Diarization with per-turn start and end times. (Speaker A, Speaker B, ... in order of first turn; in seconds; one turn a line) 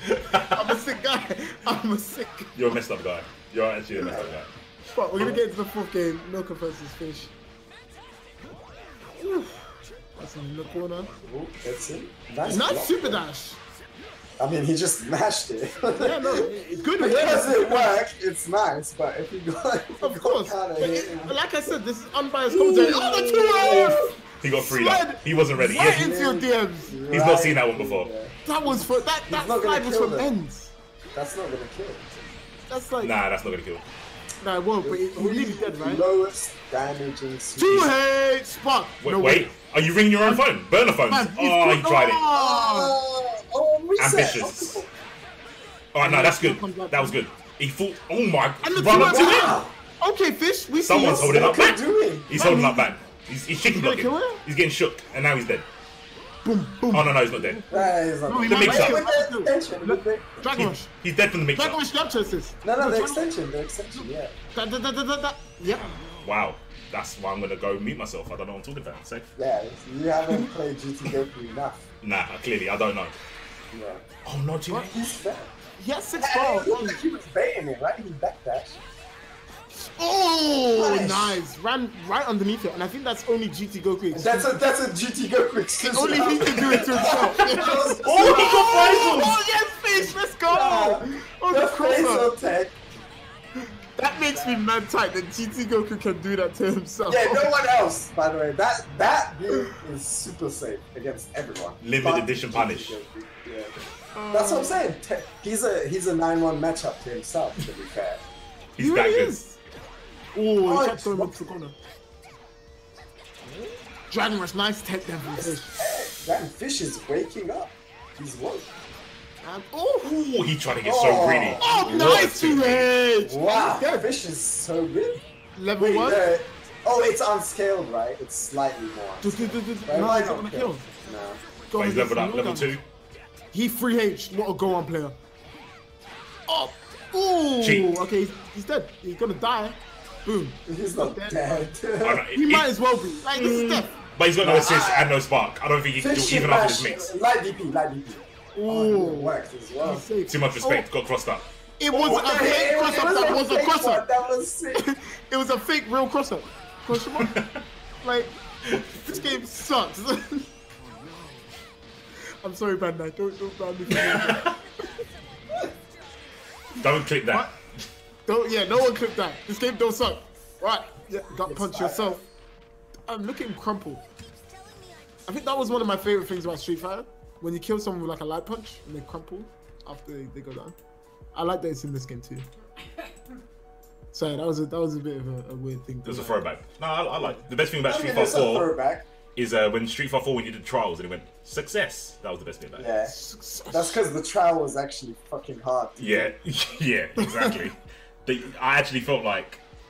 Speaker A: 0.1-0.7
Speaker B: 0.5-2.5
Speaker A: 2.5-4.5
Speaker C: 3.9-4.3
Speaker B: 5.0-7.3
Speaker B: 9.2-9.6
Speaker B: 10.2-11.1
Speaker C: 11.2-13.2
Speaker B: 12.4-13.6
Speaker C: 14.4-21.8
Speaker B: 15.9-18.0
Speaker B: 20.0-24.0
Speaker C: 22.5-24.2
Speaker A: 23.6-26.1
Speaker B: 24.6-27.0
Speaker C: 25.7-30.3
Speaker A: 27.1-28.1
Speaker B: 28.4-30.7
Speaker C: 31.1-32.1
Speaker B: 32.7-33.1
Speaker A: 33.0-33.8
Speaker B: 34.4-36.0
Speaker C: 34.8-38.0
Speaker B: 37.6-39.5
Speaker A: 39.0-42.2
Speaker B: 41.1-43.0
Speaker C: 42.3-44.9
Speaker A: 44.0-44.8
Speaker A: 45.9-49.6
Speaker B: 46.0-47.2
Speaker B: 48.6-51.7
Speaker C: 48.8-49.7
Speaker A: 50.9-55.7
Speaker C: 50.9-52.3
Speaker B: 52.3-52.9
Speaker B: 53.7-54.4
Speaker B: 56.4-60.9
Speaker A: 56.9-57.6
Speaker C: 57.7-60.4
Speaker A: 58.4-59.0
Speaker A: 60.5-61.8
Speaker B: 61.5-63.2
Speaker C: 62.6-64.3
Speaker B: 64.5-66.0
Speaker A: 65.7-69.3
Speaker C: 69.4-71.9
Speaker A: 72.0-73.2
Speaker C: 73.7-74.1
Speaker A: 74.2-75.1
Speaker C: 74.8-75.5
Speaker B: 75.8-77.0
Speaker C: 76.2-78.8
Speaker B: 79.8-84.5
Speaker C: 80.7-81.4
Speaker C: 84.1-89.0
Speaker B: 85.8-92.3
Speaker A: 87.5-89.4
Speaker C: 90.0-92.8
Speaker B: 94.0-97.5
Speaker C: 94.2-94.6
Speaker C: 97.1-103.8
Speaker A: 101.8-103.0
Speaker B: 104.2-104.9
Speaker C: 104.3-108.2
Speaker A: 108.8-109.4
Speaker B: 108.8-109.6
Speaker B: 110.3-111.8
Speaker C: 110.6-111.4
Speaker B: 113.5-115.8
Speaker C: 115.3-118.7
Speaker B: 119.4-120.2
Speaker A: 120.0-122.9
Speaker C: 120.8-122.0
Speaker B: 121.6-124.1
Speaker C: 123.2-125.2
Speaker B: 125.6-126.3
Speaker C: 125.8-131.4
Speaker B: 129.2-130.9
Speaker B: 131.7-132.7
Speaker A: 131.8-132.8
Speaker B: 133.5-135.2
Speaker B: 136.5-141.8
Speaker A: 137.6-137.9
Speaker C: 140.7-142.3
Speaker A: 142.0-142.7
Speaker B: 142.3-143.9
Speaker A: 143.4-147.1
Speaker C: 143.4-143.8
Speaker C: 144.4-145.2
Speaker C: 146.0-150.1
Speaker B: 148.6-150.8
Speaker A: 150.3-151.5
Speaker B: 151.8-154.0
Speaker C: 151.9-154.8
Speaker B: 154.8-157.4
Speaker A: 157.2-157.5
Speaker B: 158.0-160.5
Speaker B: 162.4-164.6
Speaker A: 163.9-164.5
Speaker A: 166.8-167.8
Speaker B: 167.3-167.6
Speaker B: 168.3-172.2
Speaker C: 171.3-172.2
Speaker B: 173.1-174.0
Speaker B: 175.3-180.8
Speaker B: 181.3-182.5
Speaker B: 184.1-186.4
Speaker A: 186.1-188.7
Speaker C: 187.9-189.1
Speaker A: 189.4-192.9
Speaker C: 192.8-193.2
Speaker B: 193.1-194.0
Speaker C: 193.7-196.3
Speaker A: 196.0-199.6
Speaker B: 197.2-197.7